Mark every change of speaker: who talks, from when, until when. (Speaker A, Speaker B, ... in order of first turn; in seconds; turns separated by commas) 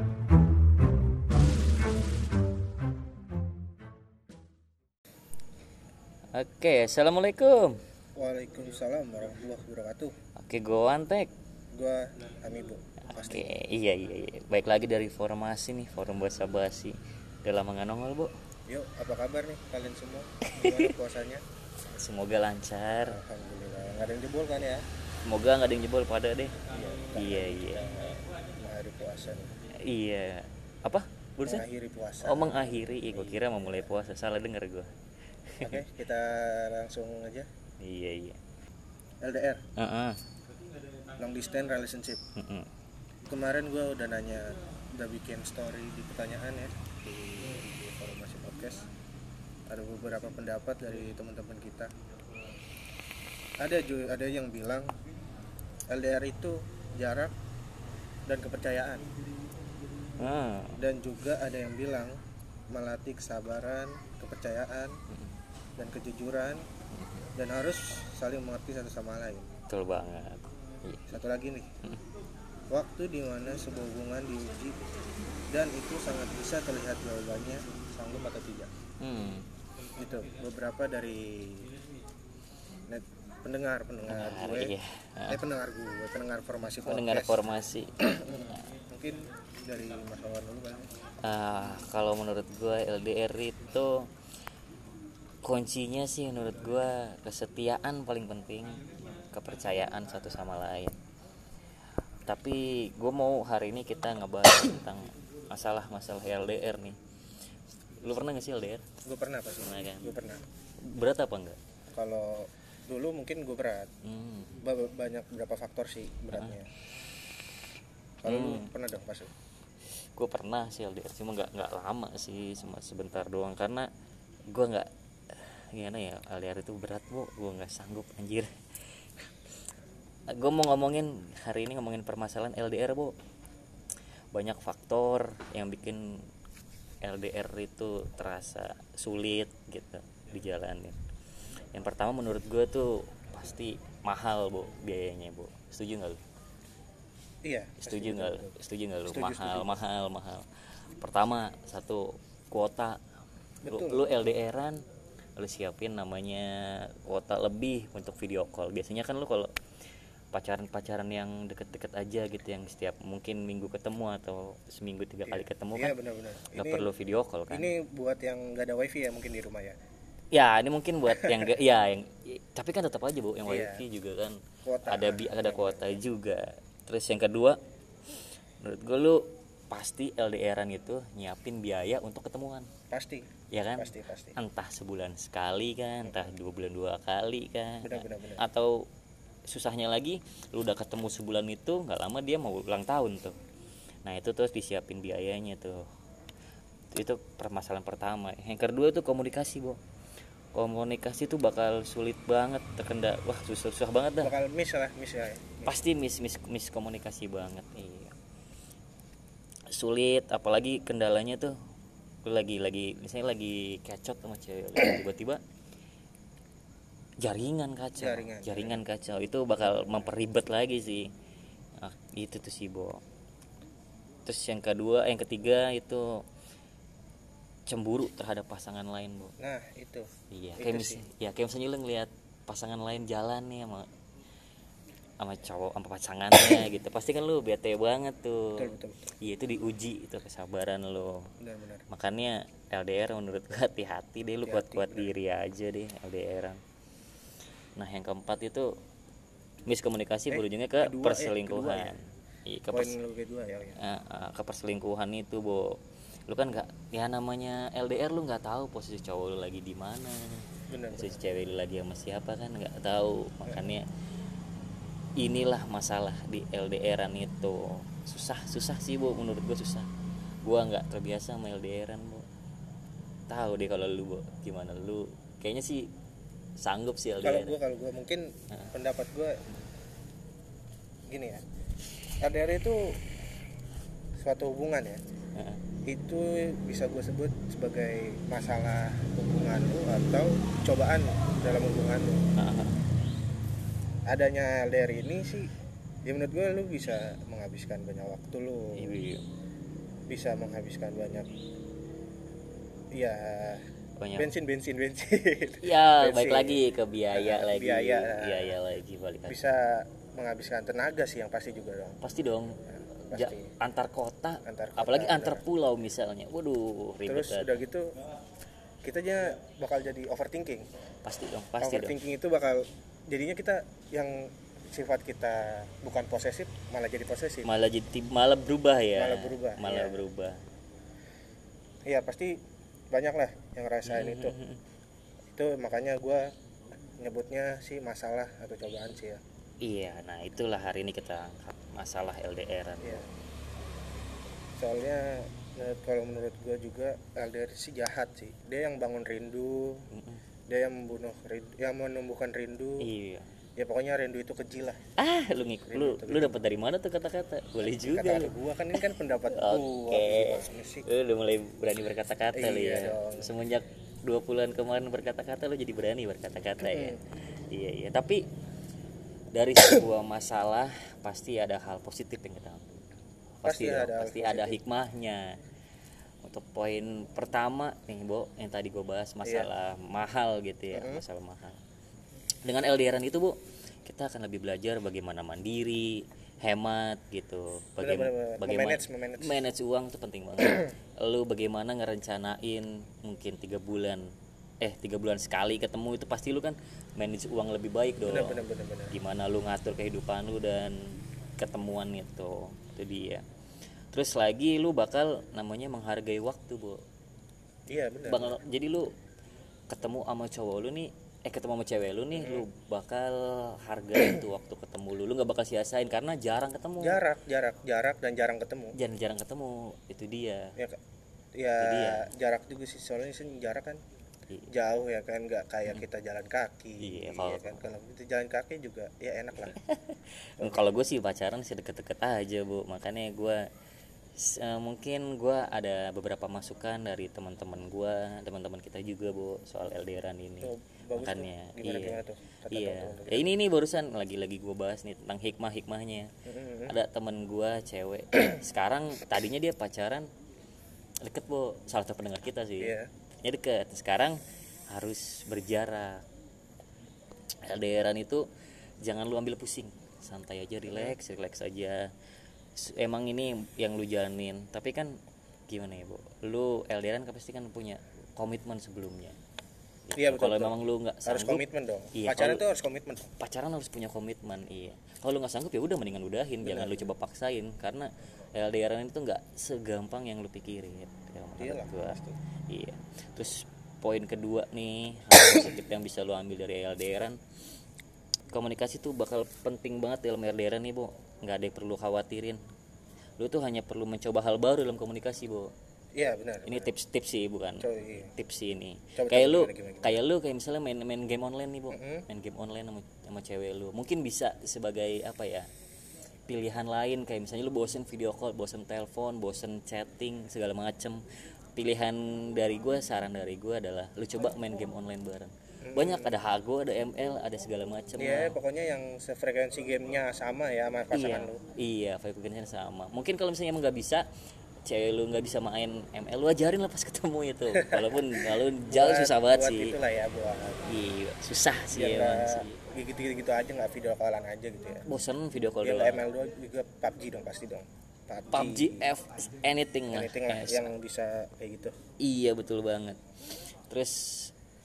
Speaker A: 6.3-7.8, Speaker B: 8.2-10.1, Speaker A: 10.4-11.3, Speaker B: 11.7-13.5, Speaker A: 13.1-18.3, Speaker B: 18.7-21.4, Speaker A: 20.5-20.9, Speaker A: 21.9-23.2, Speaker B: 23.0-24.8, Speaker A: 25.2-26.5, Speaker B: 26.7-29.5, Speaker A: 27.1-27.9, Speaker A: 29.9-31.6, Speaker B: 31.4-33.3, Speaker A: 32.2-34.9, Speaker A: 35.5-35.8, Speaker B: 35.6-37.5, Speaker A: 37.8-38.4, Speaker B: 39.2-39.6, Speaker A: 39.8-40.2, Speaker B: 41.2-42.2, Speaker A: 42.4-42.7, Speaker B: 43.3-48.8, Speaker B: 49.7-51.9, Speaker B: 53.6-54.9, Speaker B: 55.9-57.3, Speaker B: 58.3-59.0, Speaker A: 60.2-60.8, Speaker B: 60.8-62.2, Speaker B: 62.7-65.0, Speaker B: 65.8-66.6, Speaker A: 66.9-67.2, Speaker B: 67.4-69.5, Speaker A: 69.7-71.2, Speaker B: 71.1-71.7, Speaker B: 72.7-74.8, Speaker B: 75.5-78.7, Speaker A: 79.0-79.4, Speaker B: 80.0-81.7, Speaker B: 82.9-84.7, Speaker A: 84.1-85.4, Speaker B: 85.3-87.4, Speaker A: 86.8-88.6, Speaker B: 88.0-90.9, Speaker A: 91.2-94.1, Speaker A: 95.4-98.8, Speaker A: 99.3-101.0, Speaker A: 102.3-107.0, Speaker A: 108.0-108.8, Speaker B: 109.0-110.4, Speaker A: 109.6-110.1, Speaker A: 110.8-111.6, Speaker B: 111.9-113.9, Speaker A: 114.0-114.6, Speaker B: 114.6-116.7, Speaker A: 118.2-118.7, Speaker B: 118.2-119.3, Speaker A: 120.2-123.9, Speaker A: 124.5-128.5, Speaker A: 130.3-133.1, Speaker A: 134.3-136.2, Speaker A: 137.0-141.0, Speaker A: 141.7-146.2, Speaker B: 147.4-148.6, Speaker A: 147.8-150.5, Speaker B: 149.1-149.8, Speaker A: 151.0-153.0, Speaker B: 153.6-154.1, Speaker A: 153.7-154.8, Speaker A: 155.4-159.5, Speaker A: 160.3-165.9, Speaker B: 165.2-166.9, Speaker A: 166.5-167.7, Speaker B: 167.5-169.8, Speaker A: 170.3-177.6, Speaker B: 171.1-171.5, Speaker B: 173.4-173.8, Speaker B: 174.7-175.7, Speaker A: 178.6-182.7, Speaker B: 182.9-184.4, Speaker A: 183.5-188.9, Speaker B: 186.0-186.3, Speaker B: 187.8-188.4, Speaker A: 189.5-193.4, Speaker A: 194.0-195.9, Speaker A: 196.9-199.8, Speaker A: 200.5-204.3, Speaker B: 204.2-205.7, Speaker A: 205.6-208.1, Speaker A: 209.7-211.5, Speaker A: 212.2-215.4, Speaker A: 217.2-221.1, Speaker B: 218.0-218.8, Speaker B: 219.6-220.1, Speaker A: 221.8-223.0, Speaker A: 224.2-226.2, Speaker A: 227.7-229.3, Speaker B: 229.4-231.0, Speaker A: 230.3-233.9, Speaker A: 235.2-238.7, Speaker B: 238.6-239.0, Speaker A: 239.2-241.3, Speaker B: 241.4-241.8, Speaker A: 241.9-246.6, Speaker B: 244.4-245.1, Speaker A: 247.8-248.7, Speaker A: 249.7-252.9, Speaker B: 250.3-251.9, Speaker B: 252.7-253.8, Speaker A: 253.8-263.8, Speaker B: 260.7-261.2, Speaker A: 265.2-269.9, Speaker A: 270.4-272.2, Speaker A: 273.3-275.9, Speaker A: 276.6-277.5, Speaker B: 277.2-279.4, Speaker B: 281.1-281.4, Speaker B: 282.2-282.9, Speaker B: 284.2-285.0, Speaker A: 285.3-285.6, Speaker B: 285.9-292.2, Speaker A: 292.3-292.8, Speaker B: 294.1-295.5, Speaker B: 296.0-298.9, Speaker A: 298.8-299.2, Speaker B: 300.1-301.3, Speaker B: 302.9-303.6, Speaker A: 304.0-304.3, Speaker B: 304.2-308.5, Speaker A: 305.6-309.4, Speaker B: 309.3-312.0, Speaker A: 312.0-312.6, Speaker B: 313.1-313.5, Speaker A: 313.1-317.6, Speaker B: 314.4-315.4, Speaker B: 317.1-317.9, Speaker B: 318.8-320.6, Speaker A: 321.0-321.9, Speaker B: 321.6-327.5, Speaker A: 327.4-330.4, Speaker B: 328.9-330.0, Speaker B: 331.9-332.3, Speaker B: 332.9-334.4, Speaker A: 333.9-334.6, Speaker B: 335.3-336.3, Speaker B: 337.0-339.2, Speaker A: 339.6-343.0, Speaker B: 342.8-343.1, Speaker B: 344.6-349.9, Speaker A: 349.9-350.2, Speaker B: 350.5-352.9, Speaker A: 352.8-353.3, Speaker B: 353.6-354.8, Speaker A: 355.0-367.0, Speaker B: 355.7-356.4, Speaker B: 357.8-360.9, Speaker B: 362.3-363.3, Speaker B: 366.6-367.0, Speaker A: 367.5-368.2, Speaker A: 369.3-375.4, Speaker B: 373.4-374.6, Speaker A: 376.2-381.6, Speaker B: 380.7-381.0, Speaker A: 382.4-394.1, Speaker B: 387.8-389.4, Speaker A: 394.6-403.2, Speaker B: 398.0-398.9, Speaker A: 403.9-406.8, Speaker B: 407.7-408.4, Speaker A: 408.1-408.9, Speaker A: 409.7-417.0, Speaker B: 412.1-412.4, Speaker B: 416.8-418.8, Speaker A: 418.7-420.5, Speaker B: 421.4-423.8, Speaker A: 421.6-422.1, Speaker B: 424.5-429.6, Speaker A: 426.8-427.7, Speaker A: 429.4-433.4, Speaker B: 430.4-430.6, Speaker A: 434.2-446.1, Speaker B: 440.4-443.4, Speaker B: 446.3-446.7, Speaker A: 446.7-450.1, Speaker A: 451.0-456.0, Speaker B: 452.6-452.9, Speaker A: 457.4-458.2, Speaker A: 458.8-461.9, Speaker B: 460.7-460.9, Speaker A: 462.6-465.0, Speaker A: 465.5-469.2, Speaker A: 469.9-471.4, Speaker B: 469.9-473.1, Speaker A: 471.9-472.4, Speaker A: 473.1-482.0, Speaker B: 476.4-476.8, Speaker B: 481.4-482.2, Speaker A: 482.5-487.2, Speaker A: 488.3-492.4, Speaker A: 493.2-495.5, Speaker B: 495.9-496.7, Speaker A: 496.4-505.5, Speaker B: 497.6-498.1, Speaker B: 498.9-500.0, Speaker B: 501.7-502.1, Speaker A: 506.3-511.0, Speaker A: 511.6-518.4, Speaker B: 515.6-516.1, Speaker B: 518.0-521.4, Speaker A: 520.9-524.0, Speaker A: 524.6-529.8, Speaker B: 527.5-530.7, Speaker A: 530.6-532.6, Speaker B: 531.7-534.9, Speaker A: 534.9-536.0, Speaker B: 535.6-538.9, Speaker A: 538.3-540.7, Speaker B: 539.9-541.7, Speaker A: 542.0-544.3